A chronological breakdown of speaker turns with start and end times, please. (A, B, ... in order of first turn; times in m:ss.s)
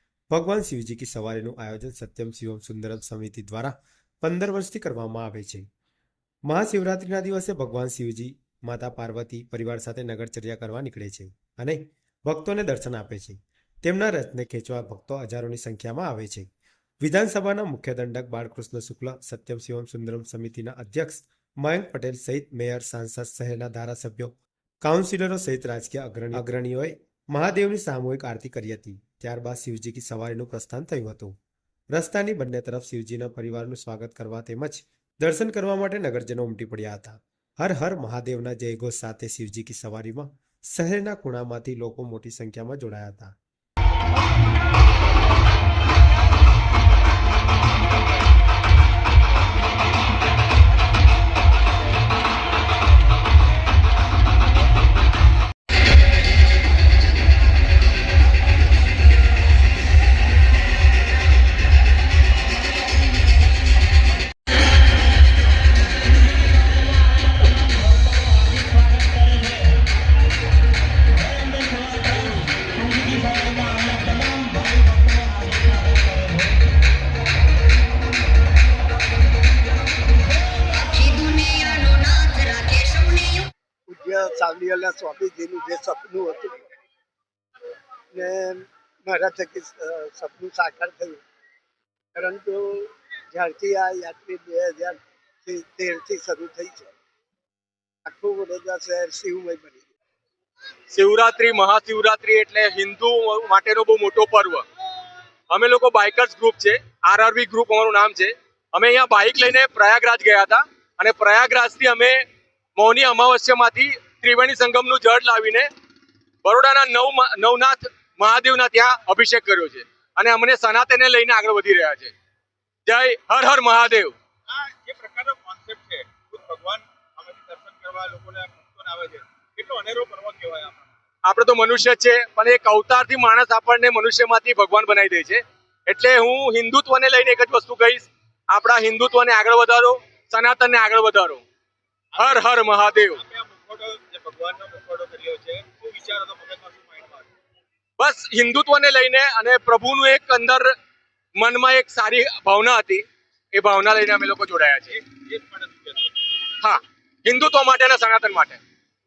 0:00.3-0:05.6 A
0:06.5-0:16.5 A
0:17.0-0:31.4 A
0:31.9-0:43.3 A
1:13.3-1:13.8 B
1:23.9-1:26.6 C
1:28.1-1:31.2 C
1:32.1-1:36.9 C
1:38.0-1:39.9 C
1:40.9-1:44.6 B
1:45.5-1:52.2 B
1:52.8-1:55.7 B
1:56.4-2:02.1 B
2:02.9-2:04.1 B
2:04.5-2:10.9 D
2:11.2-2:21.4 B
2:22.2-2:23.2 B
2:22.2-2:27.3 D
2:28.0-2:30.7 B
2:31.4-2:35.0 B
2:35.0-2:36.1 D
2:36.6-2:38.6 B